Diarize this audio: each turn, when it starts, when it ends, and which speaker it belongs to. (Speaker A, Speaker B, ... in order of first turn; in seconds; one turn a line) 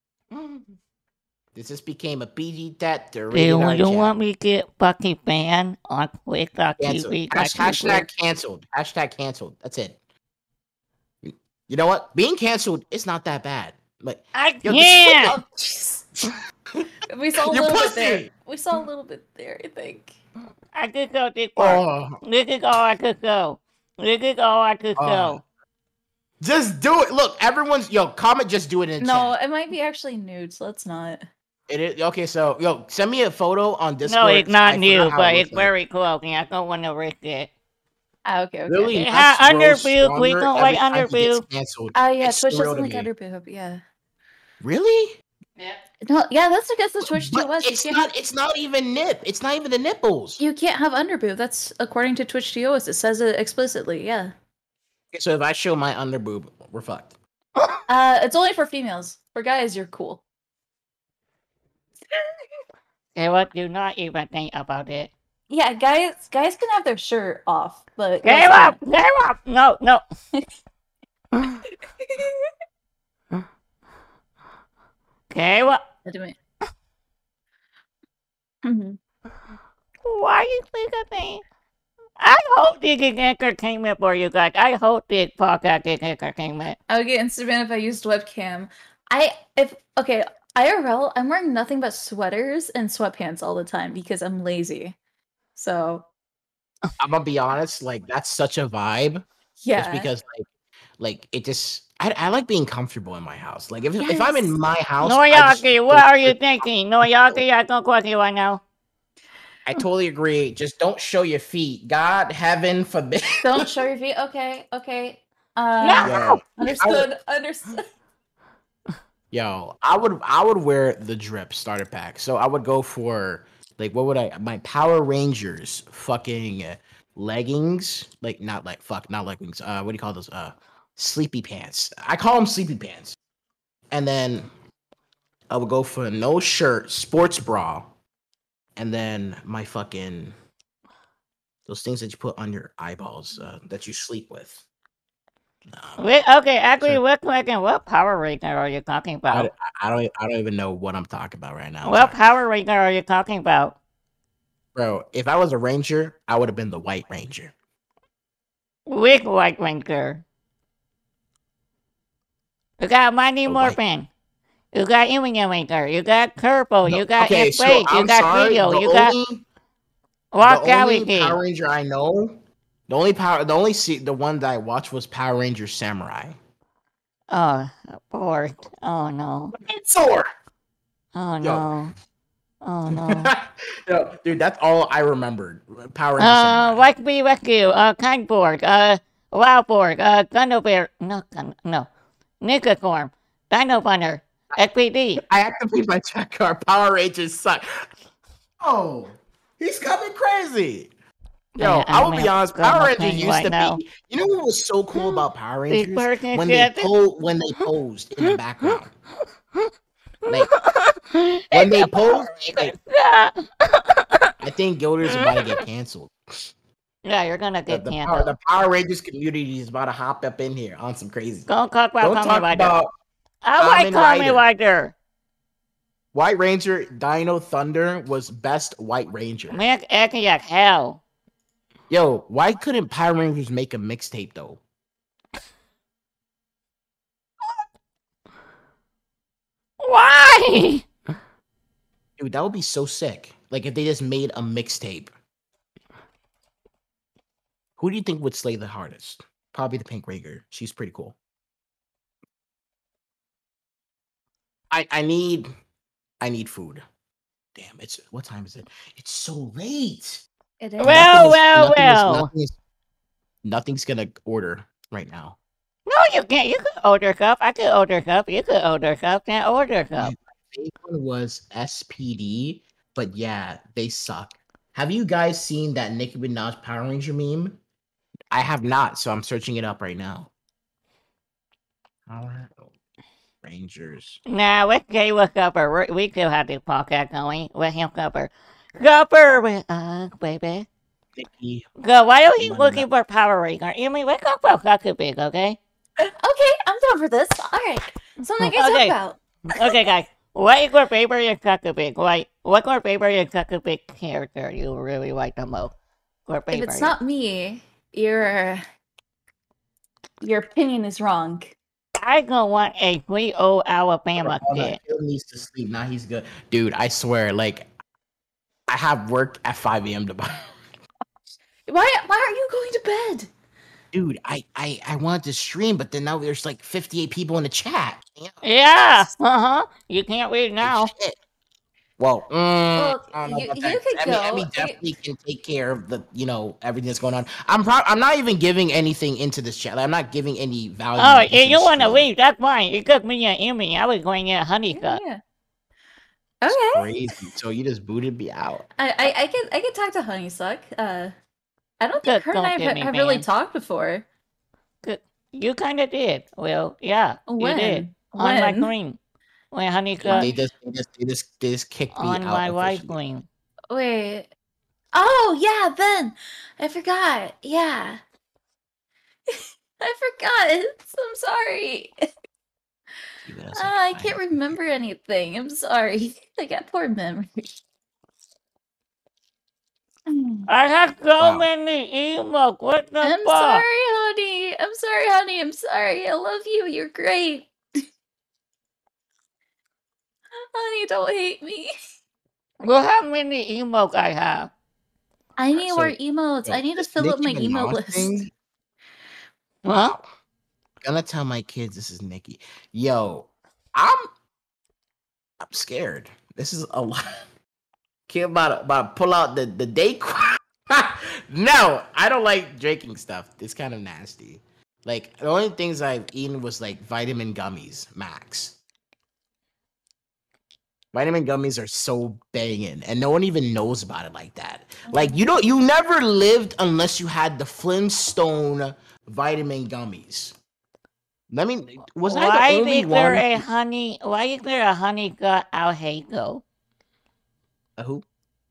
Speaker A: 1.5-4.1
Speaker B: 3.3-8.1
Speaker A: 6.8-10.0
Speaker A: 11.2-15.6
Speaker B: 14.3-15.3
Speaker C: 15.2-16.0
Speaker A: 16.1-18.3
Speaker C: 17.1-20.2
Speaker B: 20.7-25.4
Speaker A: 21.6-22.2
Speaker A: 24.9-25.4
Speaker A: 26.4-29.4
Speaker C: 29.0-31.2
Speaker A: 31.7-35.7
Speaker B: 34.0-37.5
Speaker C: 38.2-39.0
Speaker A: 38.7-43.1
Speaker B: 38.9-41.4
Speaker C: 41.9-43.8
Speaker A: 44.6-45.2
Speaker C: 46.0-48.0
Speaker A: 47.0-50.4
Speaker C: 50.4-54.3
Speaker A: 55.1-57.1
Speaker C: 57.9-60.2
Speaker C: 62.1-62.4
Speaker B: 63.1-65.1
Speaker C: 65.5-68.8
Speaker B: 68.2-70.0
Speaker C: 72.0-72.5
Speaker B: 75.3-75.8
Speaker C: 76.0-76.3
Speaker C: 78.6-79.0
Speaker B: 80.0-81.4
Speaker B: 82.2-86.8
Speaker C: 86.9-95.0
Speaker C: 95.5-96.0
Speaker A: 97.0-99.2
Speaker C: 99.6-100.1
Speaker A: 99.8-100.5
Speaker A: 101.0-106.4
Speaker C: 104.0-104.5
Speaker B: 105.0-108.6
Speaker A: 107.0-107.4
Speaker A: 109.7-113.7
Speaker C: 113.4-117.8
Speaker B: 115.8-116.1
Speaker A: 116.0-117.1
Speaker A: 119.3-133.2
Speaker A: 133.9-134.5
Speaker A: 135.5-137.9
Speaker A: 138.8-140.4
Speaker A: 141.7-144.6
Speaker A: 145.7-146.0
Speaker B: 146.0-149.5
Speaker A: 149.3-152.2
Speaker B: 151.8-153.8
Speaker A: 154.7-157.5
Speaker B: 158.9-160.2
Speaker B: 162.8-164.1
Speaker A: 163.4-163.8
Speaker B: 164.7-169.1
Speaker A: 166.9-169.4
Speaker B: 170.3-171.4
Speaker A: 170.4-176.4
Speaker B: 177.3-179.5
Speaker A: 179.5-180.3
Speaker B: 181.1-181.9
Speaker A: 181.4-181.7
Speaker B: 182.6-183.3
Speaker A: 182.9-186.8
Speaker B: 186.2-191.9
Speaker B: 192.4-195.2
Speaker A: 195.2-197.8
Speaker A: 198.6-200.9
Speaker B: 201.6-203.8
Speaker A: 201.6-208.9
Speaker B: 205.7-206.9
Speaker B: 210.2-214.3
Speaker A: 211.5-212.7
Speaker A: 214.4-216.5
Speaker B: 215.1-215.6
Speaker B: 217.0-218.3
Speaker A: 217.7-221.5
Speaker B: 221.5-222.8
Speaker A: 222.0-222.9
Speaker B: 223.4-224.9
Speaker A: 223.6-224.4
Speaker A: 226.1-229.6
Speaker B: 229.5-231.0
Speaker A: 231.9-234.6
Speaker B: 239.8-240.9
Speaker A: 242.2-245.1
Speaker A: 247.8-251.2
Speaker A: 254.7-255.5
Speaker A: 256.2-256.8
Speaker A: 257.5-260.2
Speaker C: 260.6-261.2
Speaker B: 260.8-262.3
Speaker A: 260.8-262.6
Speaker A: 263.4-265.4
Speaker B: 265.9-270.1
Speaker A: 270.0-277.6
Speaker A: 278.3-280.3
Speaker A: 282.1-282.7
Speaker A: 283.4-284.2
Speaker B: 284.3-290.7
Speaker A: 291.1-291.7
Speaker B: 291.8-295.6
Speaker A: 292.4-292.9
Speaker C: 296.0-299.7
Speaker B: 298.4-298.9
Speaker B: 299.6-305.7
Speaker B: 306.3-306.9
Speaker C: 306.5-308.6
Speaker C: 310.2-311.5
Speaker B: 312.0-314.8
Speaker A: 314.2-317.6
Speaker A: 318.7-320.5
Speaker C: 321.7-323.3
Speaker A: 323.9-329.0
Speaker B: 328.4-330.9
Speaker A: 330.6-331.2
Speaker A: 332.0-342.1
Speaker C: 332.8-334.8
Speaker B: 341.0-345.0
Speaker C: 344.7-345.2
Speaker C: 346.4-346.9
Speaker A: 346.5-348.6
Speaker C: 348.8-351.1
Speaker C: 351.8-354.1
Speaker B: 352.0-353.2
Speaker B: 354.8-359.0
Speaker C: 357.3-358.7
Speaker B: 359.5-360.3
Speaker A: 360.0-363.0
Speaker C: 360.1-360.4
Speaker B: 361.9-363.3
Speaker C: 363.7-364.3
Speaker C: 364.9-368.0
Speaker C: 369.3-372.1
Speaker A: 373.2-374.2
Speaker C: 373.5-377.6
Speaker C: 380.1-380.5
Speaker B: 380.5-383.6
Speaker A: 381.2-381.5
Speaker C: 383.0-387.8
Speaker C: 390.3-391.7
Speaker B: 392.6-394.5
Speaker C: 395.4-398.2
Speaker A: 395.6-395.9
Speaker A: 396.4-398.3
Speaker B: 399.6-399.9
Speaker A: 399.7-400.1
Speaker A: 400.8-404.1
Speaker A: 405.4-407.2
Speaker A: 408.1-418.6
Speaker A: 420.9-430.4
Speaker C: 424.9-425.2
Speaker A: 431.3-433.5
Speaker B: 432.1-436.4
Speaker A: 437.8-438.0